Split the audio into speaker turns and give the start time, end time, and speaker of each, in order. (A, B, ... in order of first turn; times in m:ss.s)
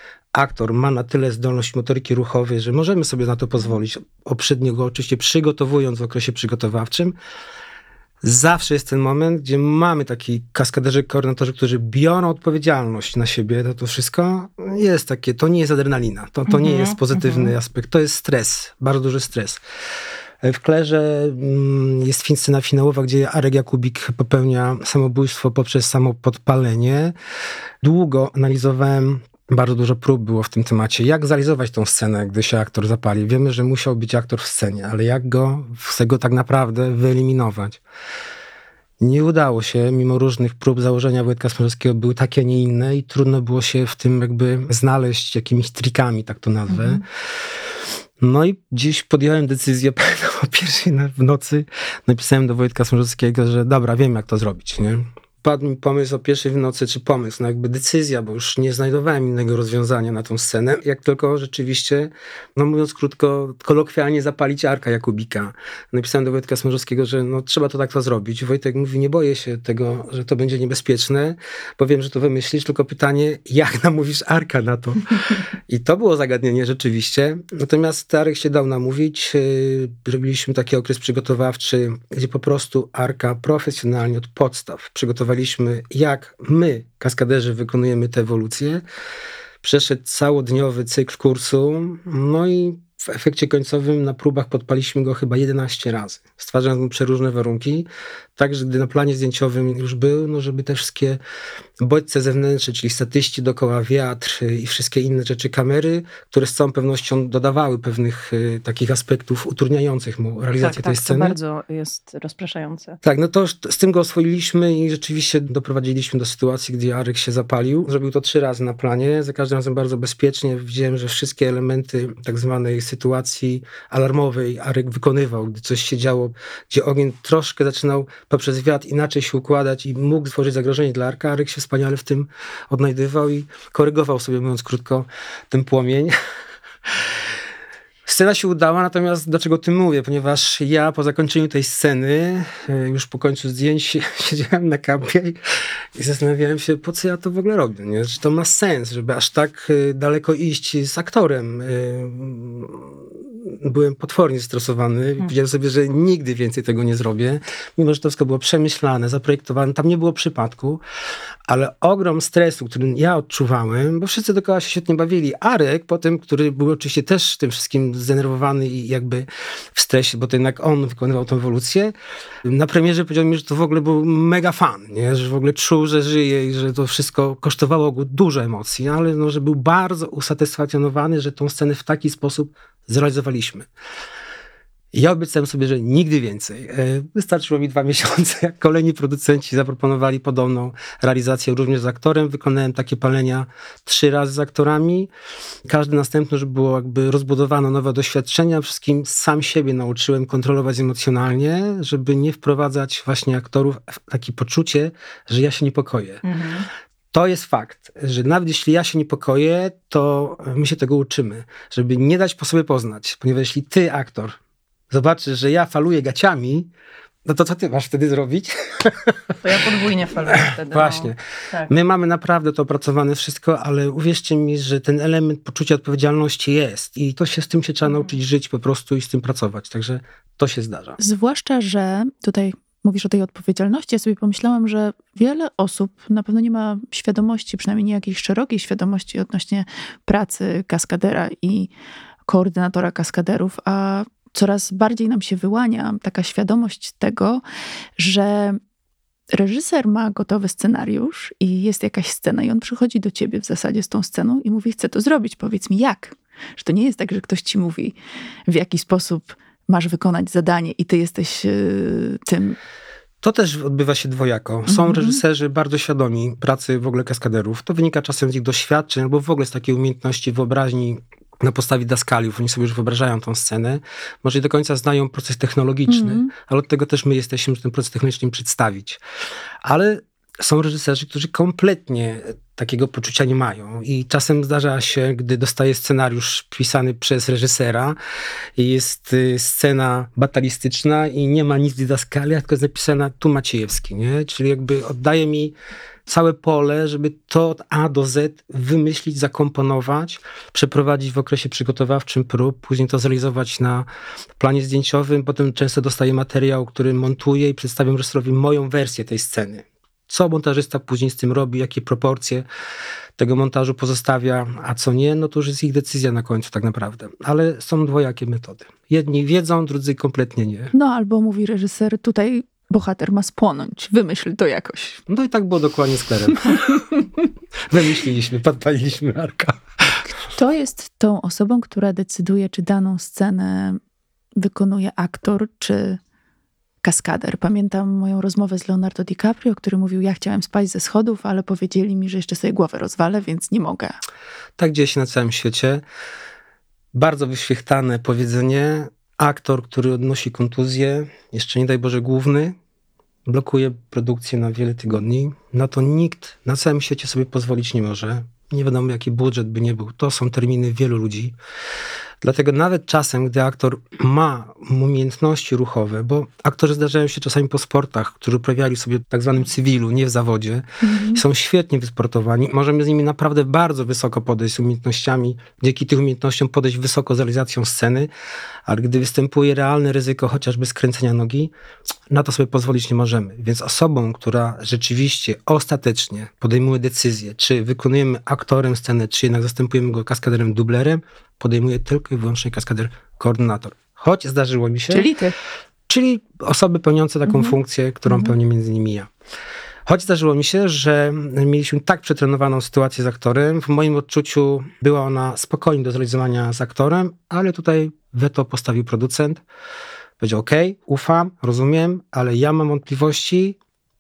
0:00.3-0:07.2 A
0:08.2-0:19.6 A
0:16.5-0:17.5 B
0:20.4-0:27.1 A
0:27.8-0:37.8 A
0:39.0-0:47.0 A
0:48.2-1:28.8 A
1:29.6-1:41.2 A
1:41.8-1:51.4 A
1:50.6-1:53.0 B
1:53.0-2:16.1 A
2:18.1-2:25.4 A
2:26.0-2:40.8 A
2:41.5-2:51.9 A
2:52.4-3:03.7 A
3:04.9-3:15.1 A
3:15.7-3:26.2 A
3:26.2-3:26.7 B
3:27.1-3:34.4 A
3:34.9-3:36.7 A
3:37.2-3:39.6 A
3:39.4-3:41.7 B
3:40.3-3:51.0 A
3:51.0-4:01.7 C
4:02.3-4:07.4 C
4:08.0-4:08.6 C
4:09.3-4:18.0 C
4:18.5-4:22.6 C
4:23.2-4:39.0 A
4:24.7-4:25.2 C
4:35.9-4:36.3 C
4:39.6-4:48.0 A
4:48.6-4:55.6 A
4:56.1-5:03.9 A
5:04.4-5:12.4 A
5:13.2-5:20.7 A
5:20.7-5:25.0 C
5:25.1-5:26.9 A
5:27.7-5:30.0 A
5:30.2-5:33.8 C
5:34.4-5:36.0 C
5:36.8-5:44.0 C
5:44.6-5:45.8 A
5:46.9-5:52.6 A
5:53.3-6:01.4 A
6:02.2-6:18.1 A
6:10.8-6:11.2 C
6:18.7-6:21.5 A
6:22.1-6:35.1 A
6:34.9-6:35.4 C
6:35.9-6:39.1 A
6:39.9-6:49.4 A
6:50.2-6:53.6 A